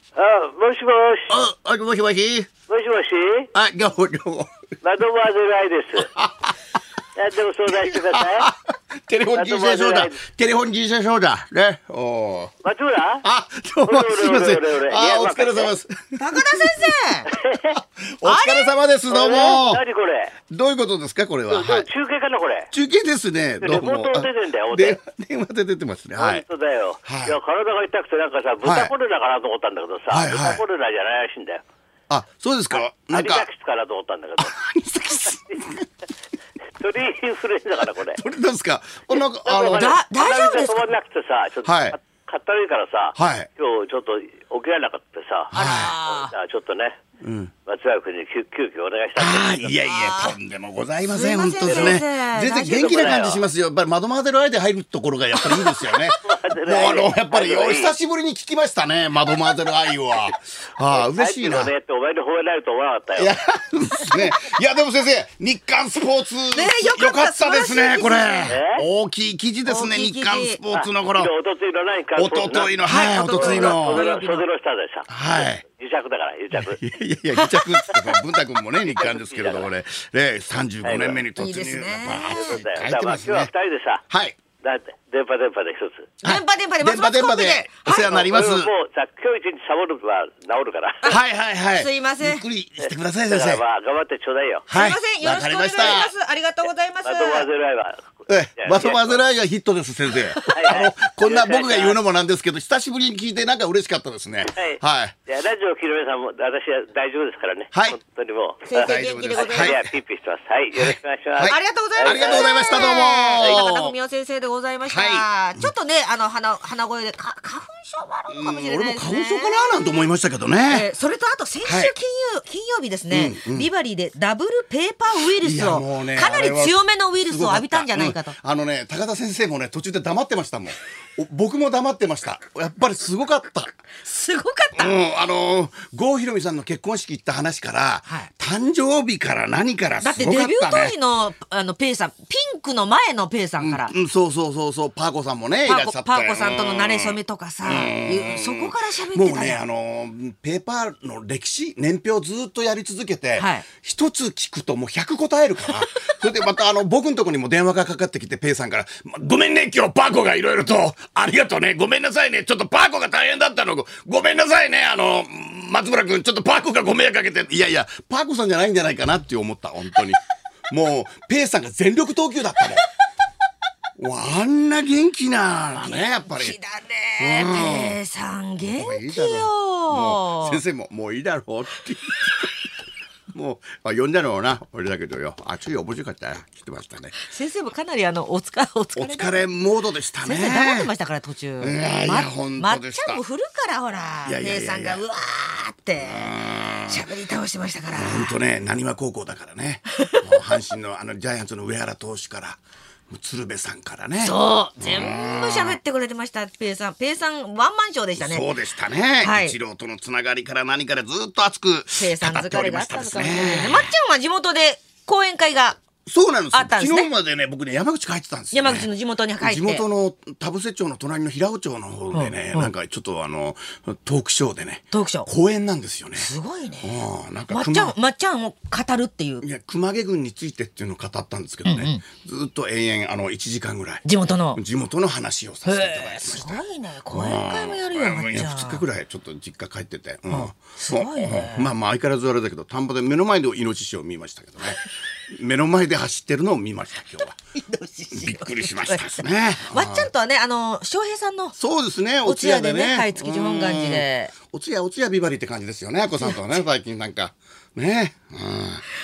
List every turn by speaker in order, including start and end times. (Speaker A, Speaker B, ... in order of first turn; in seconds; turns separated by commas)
Speaker A: 0.1-1.3, Speaker B: 1.3-2.5, Speaker A: 2.7-3.5, Speaker B: 3.5-4.5, Speaker A: 4.8-6.1, Speaker B: 6.0-6.5, Speaker A: 7.2-8.5, Speaker B: 7.7-8.5, Speaker B: 9.1-12.5, Speaker A: 9.3-10.2, Speaker A: 12.6-13.2, Speaker B: 13.2-16.9, Speaker A: 13.8-15.7, Speaker C: 16.2-17.3, Speaker A: 17.3-17.8, Speaker B: 17.6-19.8, Speaker C: 18.2-18.7, Speaker A: 19.1-20.3, Speaker B: 20.5-21.9, Speaker A: 21.5-22.7, Speaker B: 22.7-26.4, Speaker A: 23.6-25.0, Speaker A: 26.2-31.6, Speaker B: 27.0-27.4, Speaker B: 28.6-28.9, Speaker B: 30.1-30.6, Speaker B: 32.1-33.5, Speaker A: 32.7-34.6, Speaker B: 34.4-35.9, Speaker A: 35.1-35.6, Speaker A: 36.8-38.2, Speaker B: 37.9-39.9, Speaker A: 39.1-47.0, Speaker C: 39.6-40.9, Speaker B: 41.6-42.0, Speaker B: 43.1-43.5, Speaker B: 45.5-45.9, Speaker C: 45.5-46.3, Speaker B: 47.2-47.5, Speaker A: 47.7-49.8, Speaker B: 49.2-61.7, Speaker C: 49.8-50.4, Speaker C: 51.0-53.2, Speaker A: 51.6-52.0, Speaker A: 52.6-53.4, Speaker C: 55.4-55.9, Speaker A: 56.2-57.9, Speaker A: 60.9-63.3, Speaker B: 63.2-71.3, Speaker C: 66.5-68.6, Speaker A: 68.5-68.8, Speaker C: 69.7-70.6, Speaker A: 70.7-76.8, Speaker B: 72.1-74.1, Speaker C: 72.8-74.5, Speaker B: 75.1-75.6, Speaker B: 76.5-83.5, Speaker C: 77.4-78.0, Speaker A: 78.8-79.7, Speaker A: 80.8-81.2, Speaker C: 81.3-82.5, Speaker A: 82.3-84.0, Speaker B: 84.1-84.3, Speaker A: 84.6-86.1, Speaker C: 86.2-88.2, Speaker B: 86.2-88.7, Speaker A: 87.9-91.2, Speaker B: 91.1-93.6, Speaker C: 91.7-92.4, Speaker A: 92.8-94.7, Speaker B: 94.7-96.1, Speaker C: 94.7-97.5, Speaker A: 97.0-98.0, Speaker B: 98.3-105.1, Speaker A: 98.6-99.2, Speaker C: 100.3-100.6, Speaker A: 100.5-102.0, Speaker A: 104.5-113.6, Speaker B: 107.7-108.0, Speaker C: 108.7-109.8, Speaker B: 108.8-109.9, Speaker B: 110.8-113.9, Speaker C: 111.5-119.7, Speaker B: 114.9-115.7, Speaker B: 118.3-120.9, Speaker C: 120.7-128.3, Speaker B: 121.6-121.9, Speaker B: 123.1-123.7, Speaker B: 125.4-133.7, Speaker C: 134.0-135.0, Speaker B: 134.8-140.9, Speaker C: 140.0-143.9, Speaker B: 143.6-172.8, Speaker C: 145.6-149.6, Speaker C: 153.3-153.7, Speaker B: 174.0-176.6, Speaker C: 175.7-180.6, Speaker B: 177.2-178.0, Speaker B: 178.7-182.5, Speaker B: 183.3-187.2, Speaker C: 187.2-189.4, Speaker B: 188.9-190.9, Speaker C: 190.2-196.3, Speaker B: 191.6-193.2, Speaker B: 194.2-195.0, Speaker B: 196.0-196.9, Speaker C: 196.9-198.3, Speaker B: 197.9-205.8, Speaker C: 204.2-208.5, Speaker B: 208.2-213.9, Speaker C: 209.2-209.6, Speaker C: 211.9-215.8, Speaker B: 216.0-226.3, Speaker C: 216.5-217.1, Speaker C: 218.5-219.8, Speaker C: 222.1-222.7, Speaker C: 224.9-225.3, Speaker C: 226.2-226.9, Speaker B: 226.8-227.9, Speaker C: 227.5-229.4, Speaker B: 229.4-247.4, Speaker C: 231.6-232.0, Speaker C: 234.0-234.6, Speaker C: 235.6-238.8, Speaker C: 240.3-241.7, Speaker C: 247.5-251.5, Speaker B: 248.1-250.1, Speaker B: 251.6-258.8, Speaker C: 252.2-254.3, Speaker C: 256.1-256.4